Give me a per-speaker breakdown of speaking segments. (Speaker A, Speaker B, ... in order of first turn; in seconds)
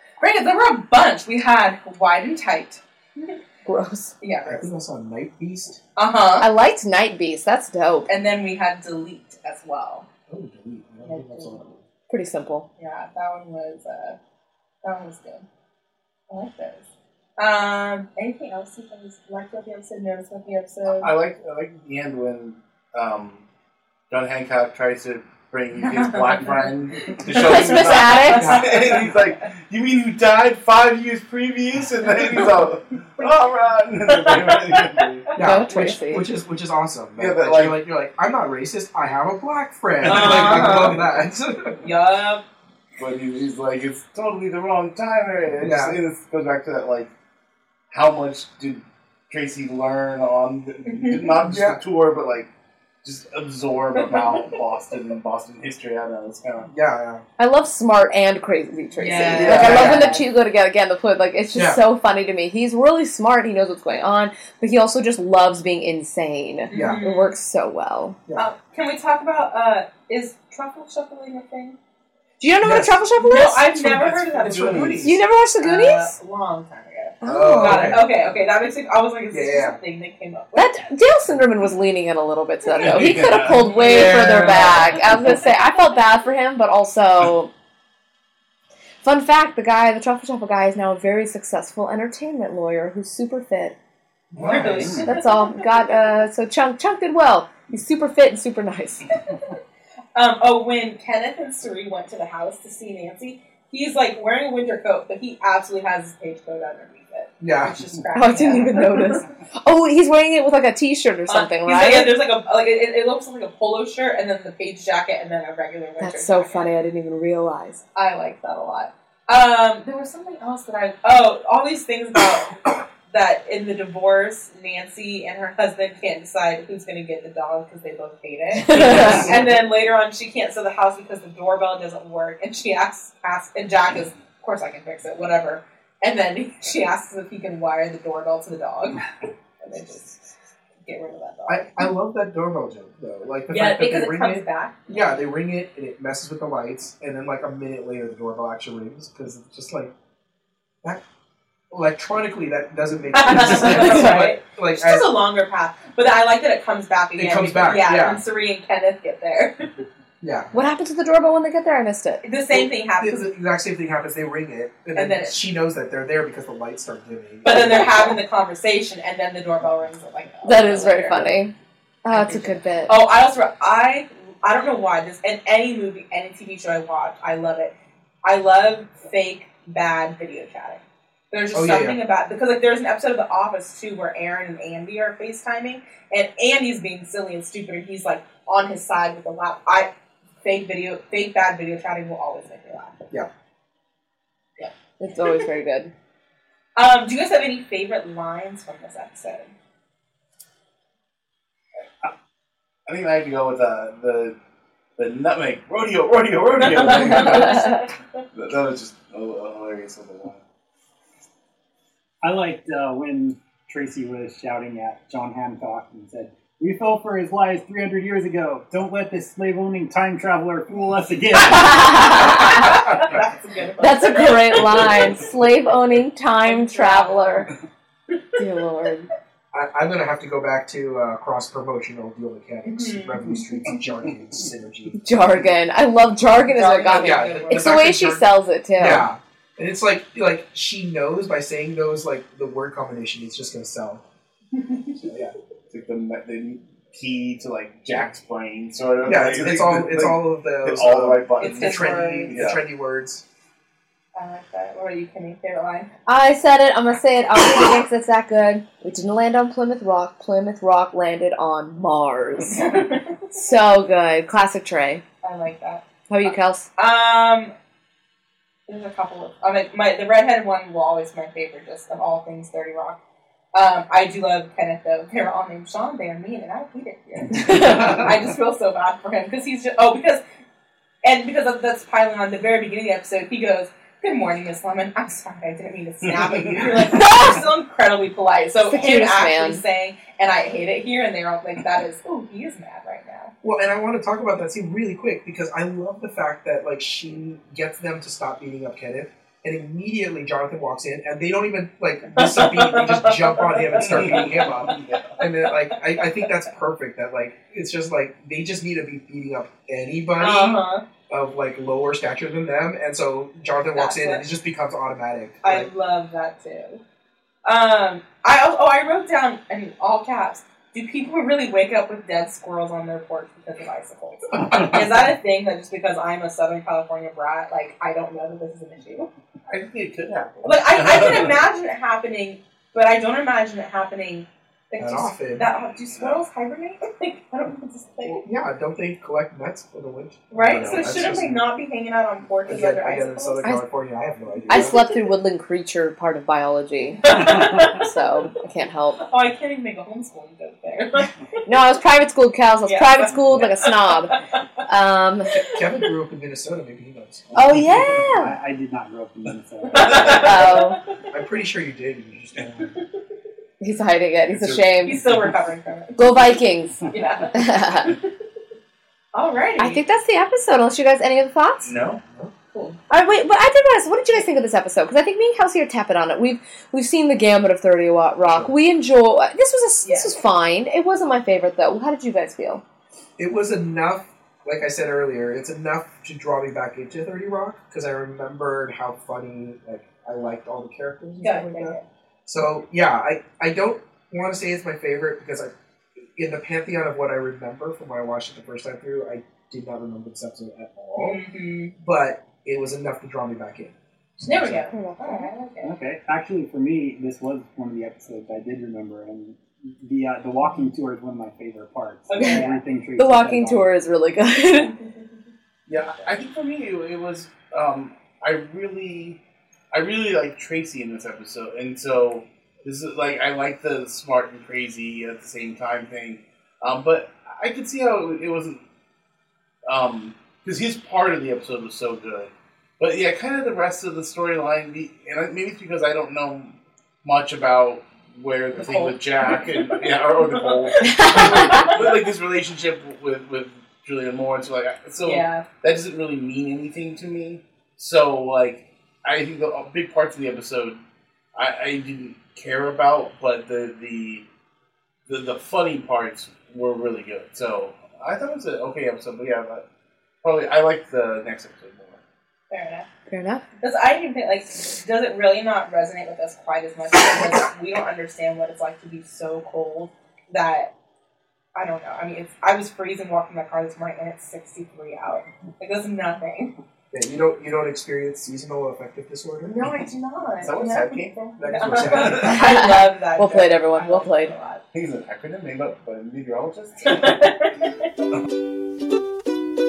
Speaker A: 0.2-3.4, 4.2-4.7, 6.0-6.5, 8.1-10.1, 11.1-11.7, 12.8-14.2, 14.8-15.5, 16.3-16.9, 17.4-21.1, 25.8-29.3, 34.1-35.3, 40.0-41.0, 41.8-42.4, 50.9-51.3, 54.0-54.5, 59.0-60.2, 66.7-67.3, 68.4-71.8, 73.3-75.1, 75.6-80.7, 94.4-95.7, 100.2-109.2, 111.3-116.7, 118.0-139.1, 139.6-140.2, 140.8-141.8, 143.5-145.1, 153.1-159.7, 162.2-163.3, 164.9-165.4, 167.4-171.3, 172.1-189.9, 190.4-193.0, 196.8-199.5, 206.6-208.2, 222.1-225.1, 226.5-227.5, 232.7-233.7, 236.5-238.0, 244.6-245.1, 251.4-252.3, 254.2-255.9, 262.6-263.4, 265.2-265.9, 266.8-267.5, 268.7-273.0, 273.5-280.2, 281.0-293.3, 302.1-304.5, 310.2-310.8, 313.8-314.2, 315.4-316.8, 317.4-329.1, 330.4-338.2, 340.3-343.5, 344.5-344.9, 347.0-347.9, 349.0-351.1, 352.7-354.2, 359.7-361.0, 364.8-368.1, 369.1-369.8, 372.5-372.8, 379.8-380.1, 391.2-391.8, 401.0-401.8, 404.2-405.7, 412.1-412.6, 438.6-441.9, 445.0-445.4, 462.5-462.9, 463.6-470.7, 471.6-476.6, 479.5-484.6, 486.9-487.5
Speaker B: 3.7-4.1, 6.4-8.1, 12.1-12.7, 27.3-28.6, 35.4-36.3, 57.4-68.2, 72.4-73.7, 75.0-76.1, 77.2-78.0, 80.5-87.5, 89.0-93.8, 95.0-99.1, 108.1-112.1, 116.0-117.8, 128.6-129.3, 153.6-154.2, 160.5-162.2, 170.4-171.5, 172.1-173.0, 195.0-195.9, 207.0-207.8, 221.4-222.9, 223.8-227.5, 228.4-229.1, 235.0-239.1, 256.1-262.7, 263.3-265.0, 266.1-266.7, 277.3-278.0, 288.7-289.6, 344.5-349.0, 351.5-355.4, 357.3-358.3, 360.0-360.8, 363.6-365.0, 366.0-366.8, 367.3-367.9, 369.6-371.7, 372.9-382.6, 404.7-405.3, 412.2-414.8, 440.8-441.7, 463.1-463.4, 482.2-484.3
Speaker C: 4.5-5.8, 10.3-11.8, 28.4-28.8, 35.4-41.8, 45.6-46.0, 51.4-51.8, 56.7-57.2, 59.5-60.2, 61.5-61.8, 66.7-67.0, 72.6-73.0, 73.6-75.2, 77.2-78.1, 79.3-79.8, 83.8-84.9, 94.3-95.0, 107.4-107.8, 129.0-129.3, 141.5-149.9, 151.7-155.1, 157.2-158.2, 160.2-160.5, 162.6-167.9, 181.5-182.0, 229.5-235.1, 236.9-244.0, 245.0-245.3, 249.0-253.2, 293.4-315.7, 324.4-324.8, 334.8-335.5, 338.0-341.4, 342.5-344.8, 355.3-357.4, 361.1-362.7, 378.3-378.5, 383.2-395.5, 396.1-401.2, 401.8-404.7, 476.9-479.6, 481.4-482.3
Speaker D: 20.9-23.4, 24.1-35.3, 37.2-37.8, 40.0-40.9, 43.0-47.1, 47.9-52.5, 53.0-56.7, 59.3-59.9, 74.5-75.0, 82.7-84.2, 202.9-204.4, 205.0-207.8, 208.3-210.4, 245.7-252.6, 303.8-305.2, 329.5-331.4, 335.9-336.2, 364.3-364.6, 371.7-372.0, 415.7-419.2, 419.7-428.6, 429.7-450.8, 451.4-454.3, 455.1-459.6, 460.2-462.0, 480.4-482.4, 484.7-487.2
Speaker E: 212.2-222.3, 357.6-360.6, 405.6-413.7